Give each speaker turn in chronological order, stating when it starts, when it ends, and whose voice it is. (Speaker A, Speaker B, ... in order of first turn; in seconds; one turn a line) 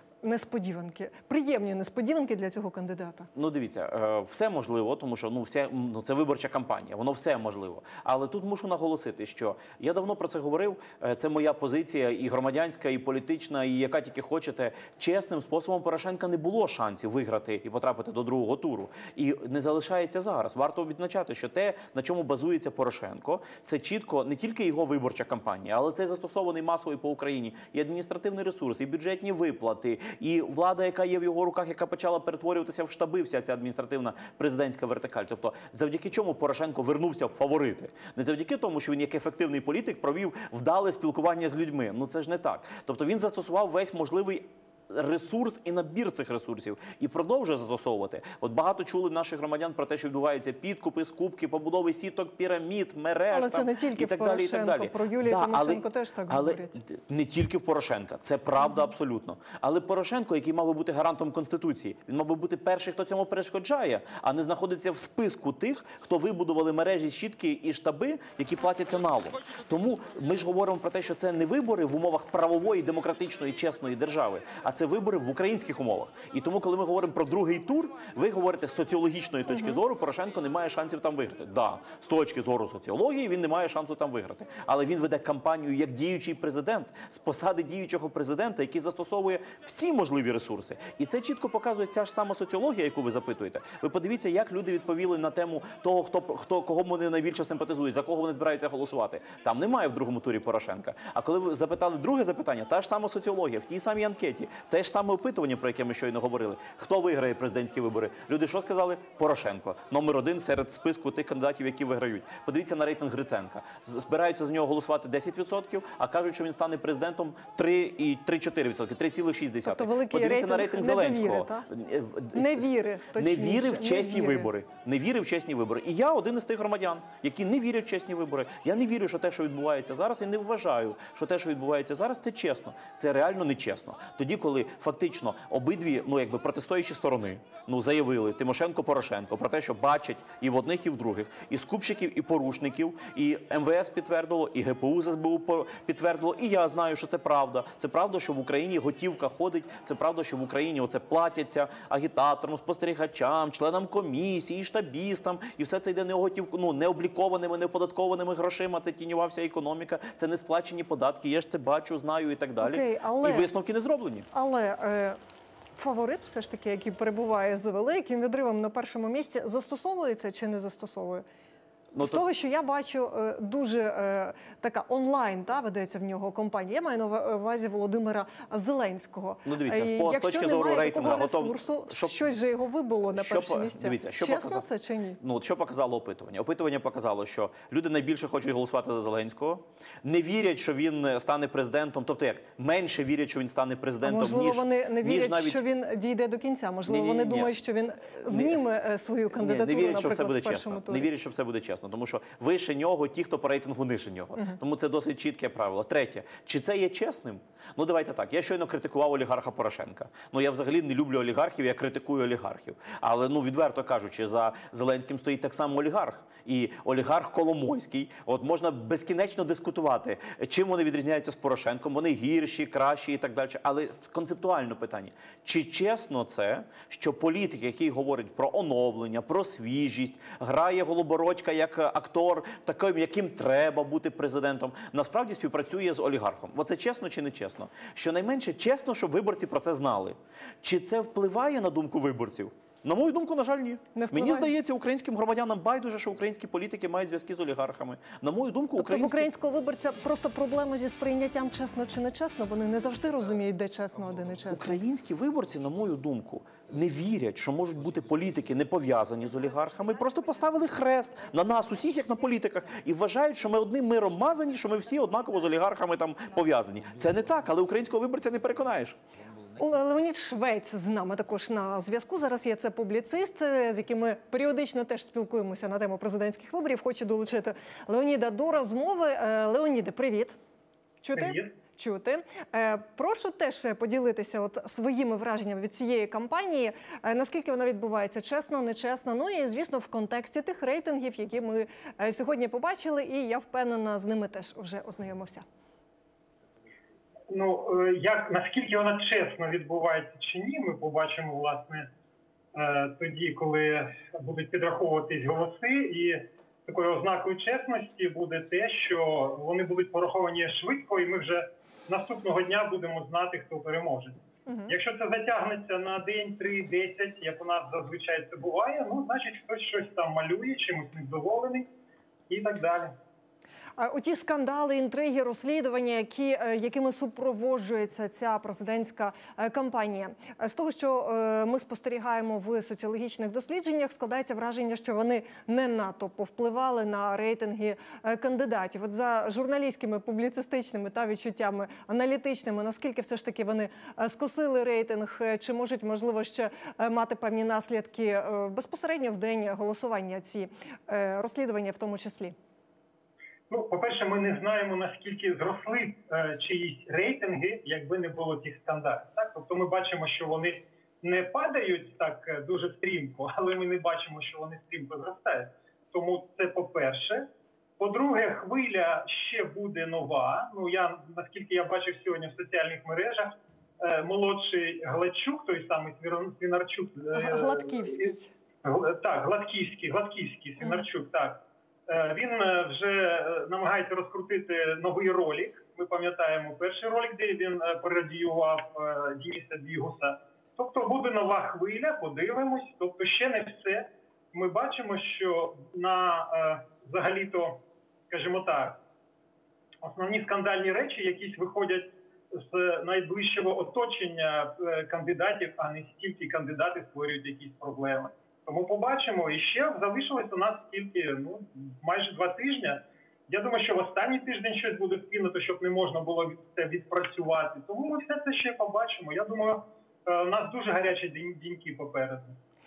Speaker A: 0.2-3.3
Speaker B: 3.3-164.3
Speaker A: 53.3-56.8
Speaker A: 79.5-79.8
Speaker A: 119.6-121.7
Speaker A: 122.3-124.5
Speaker A: 162.6-163.5
Speaker A: 164.3-165.2
Speaker A: 165.8-171.2
Speaker B: 171.9-172.2
Speaker A: 171.9-185.2
Speaker B: 179.4-182.2
Speaker B: 183.1-184.7
Speaker B: 185.2-195.6
Speaker A: 194.0-201.1
Speaker B: 196.8-197.5
Speaker B: 198.2-198.6
Speaker B: 199.3-249.3
Speaker A: 243.9-244.5
Speaker A: 248.8-254.8
Speaker B: 254.5-269.0
Speaker A: 269.6-280.4
Speaker A: 281.0-295.4
Speaker C: 281.1-281.5
Speaker C: 297.3-301.9
Speaker C: 302.5-321.7
Speaker A: 314.5-314.7
Speaker C: 322.3-322.9
Speaker A: 323.8-352.4
Speaker C: 353.5-367.3
Speaker C: 367.8-378.1
Speaker A: 377.1-378.3
Speaker C: 378.6-398.8
Speaker C: 399.8-422.4